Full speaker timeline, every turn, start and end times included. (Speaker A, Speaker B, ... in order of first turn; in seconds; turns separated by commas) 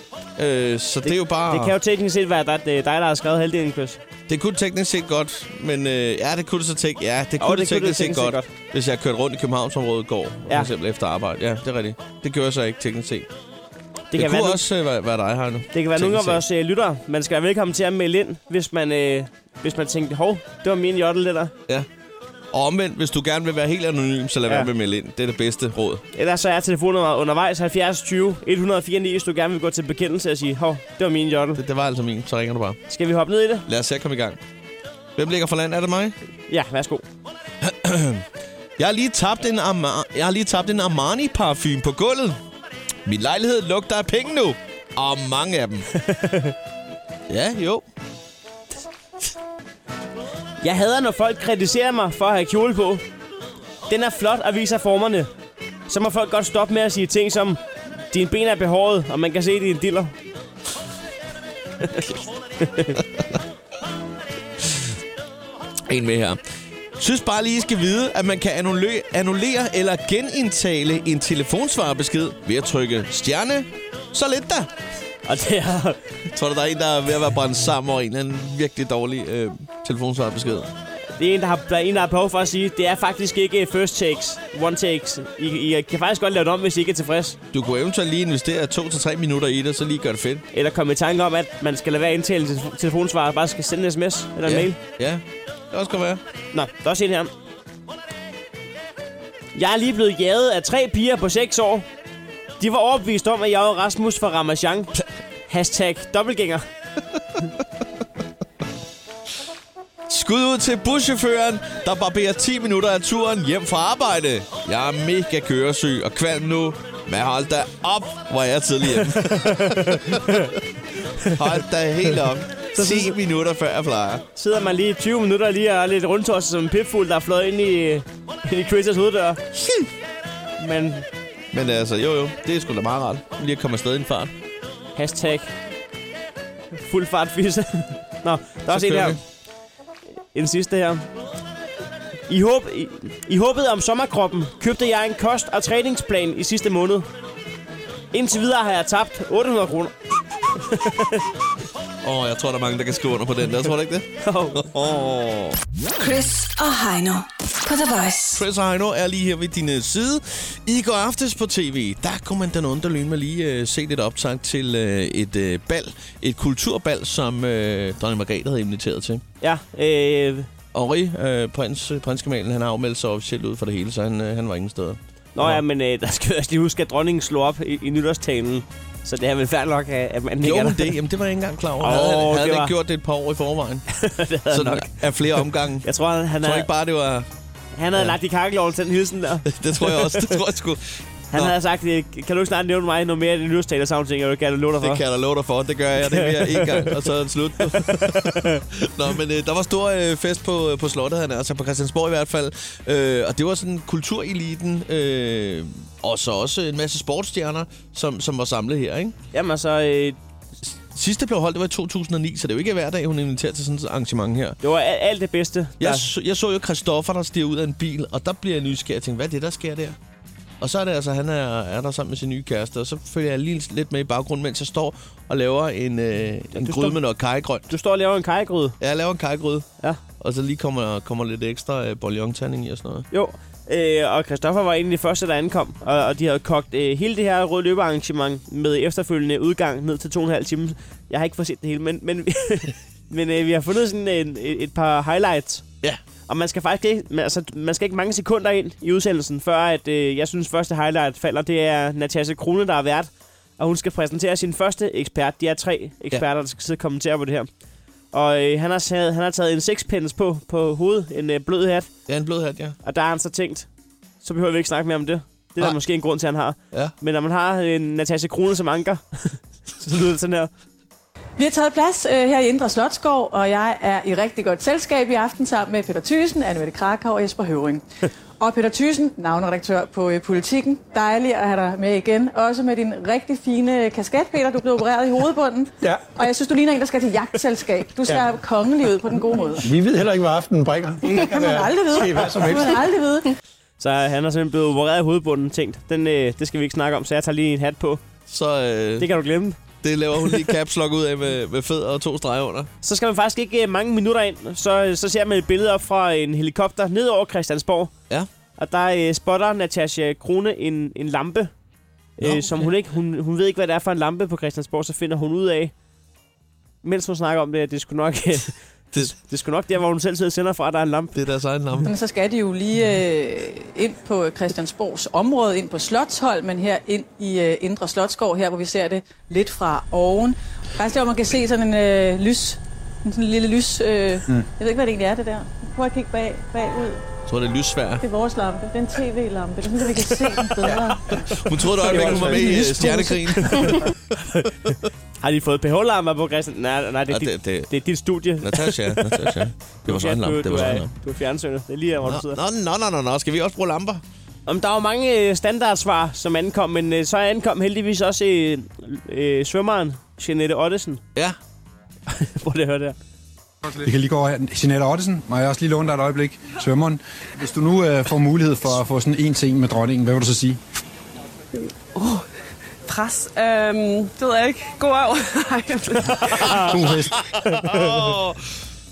Speaker A: 0.4-1.7, Speaker B: 1.0-4.0, Speaker A: 4.3-13.3, Speaker B: 7.4-8.5, Speaker B: 14.1-14.6, Speaker A: 14.1-16.4, Speaker B: 15.7-21.5, Speaker A: 22.5-26.0, Speaker B: 26.1-31.6, Speaker A: 31.6-32.8, Speaker B: 32.9-33.6, Speaker A: 33.7-34.4, Speaker A: 35.1-36.2, Speaker B: 36.5-37.0, Speaker A: 37.6-38.2, Speaker A: 38.8-42.4, Speaker A: 43.0-45.9, Speaker B: 46.0-46.5, Speaker A: 47.3-47.8, Speaker B: 50.6-53.0, Speaker B: 53.9-55.3, Speaker B: 55.9-60.1, Speaker B: 62.6-62.9, Speaker A: 65.9-66.4, Speaker A: 67.0-74.7, Speaker B: 75.2-76.0, Speaker A: 76.3-80.7, Speaker B: 81.2-87.4, Speaker A: 87.5-90.4, Speaker B: 90.5-94.8, Speaker A: 94.4-96.2, Speaker B: 96.5-97.3, Speaker B: 99.5-101.8, Speaker B: 102.6-104.9, Speaker B: 105.5-106.6, Speaker A: 110.1-120.4, Speaker B: 119.2-120.5, Speaker A: 121.3-124.2, Speaker B: 122.8-123.1, Speaker B: 124.3-129.4, Speaker A: 129.6-129.8, Speaker B: 130.6-131.1, Speaker A: 131.5-134.3, Speaker B: 134.9-135.5, Speaker B: 136.8-139.2, Speaker A: 138.7-139.2, Speaker B: 140.3-141.1, Speaker B: 142.3-147.1, Speaker B: 148.1-149.9, Speaker B: 150.6-151.2, Speaker A: 152.0-154.1, Speaker B: 154.2-155.6, Speaker C: 156.0-158.4, Speaker A: 158.3-169.2, Speaker B: 169.4-170.5, Speaker A: 170.7-175.6, Speaker B: 175.3-180.9, Speaker A: 180.4-183.8, Speaker B: 181.8-182.7, Speaker B: 183.9-185.0, Speaker A: 184.5-185.8, Speaker B: 185.8-186.7, Speaker A: 186.4-187.2, Speaker B: 187.8-190.3, Speaker A: 189.5-191.5, Speaker B: 191.3-195.0, Speaker A: 194.8-209.1, Speaker B: 196.0-196.9, Speaker B: 197.7-198.6, Speaker B: 209.3-210.2, Speaker A: 210.9-214.6, Speaker B: 214.6-216.1, Speaker A: 215.8-220.0, Speaker A: 220.6-227.7, Speaker B: 226.5-227.0, Speaker B: 227.7-228.8, Speaker A: 228.8-229.7, Speaker A: 230.2-233.1, Speaker B: 233.1-245.6, Speaker B: 246.3-257.5, Speaker B: 258.1-261.9, Speaker A: 262.1-262.8, Speaker B: 262.8-263.7, Speaker B: 264.2-270.5, Speaker D: 271.4-277.8, Speaker D: 278.4-289.7, Speaker E: 285.8-286.1, Speaker E: 289.6-292.8, Speaker D: 291.1-293.3, Speaker B: 293.8-298.0, Speaker A: 298.3-299.1, Speaker B: 299.0-299.6, Speaker A: 299.8-302.7, Speaker B: 302.8-307.9, Speaker B: 308.6-311.5, Speaker B: 312.2-315.7, Speaker A: 312.2-312.7, Speaker B: 316.8-321.2, Speaker A: 321.1-321.9, Speaker D: 321.8-337.0, Speaker A: 337.3-338.0, Speaker D: 338.0-341.3, Speaker A: 341.1-344.1, Speaker B: 341.8-344.4, Speaker D: 341.9-342.8, Speaker B: 345.2-349.3, Speaker A: 347.1-347.7, Speaker A: 348.4-350.9, Speaker B: 349.8-352.4, Speaker A: 352.0-354.0, Speaker B: 354.5-361.0, Speaker B: 362.1-362.9, Speaker F: 363.8-370.6, Speaker G: 371.9-372.2, Speaker G: 372.9-376.2, Speaker B: 376.2-376.7, Speaker F: 376.6-377.1, Speaker A: 377.4-378.4, Speaker B: 377.4-377.8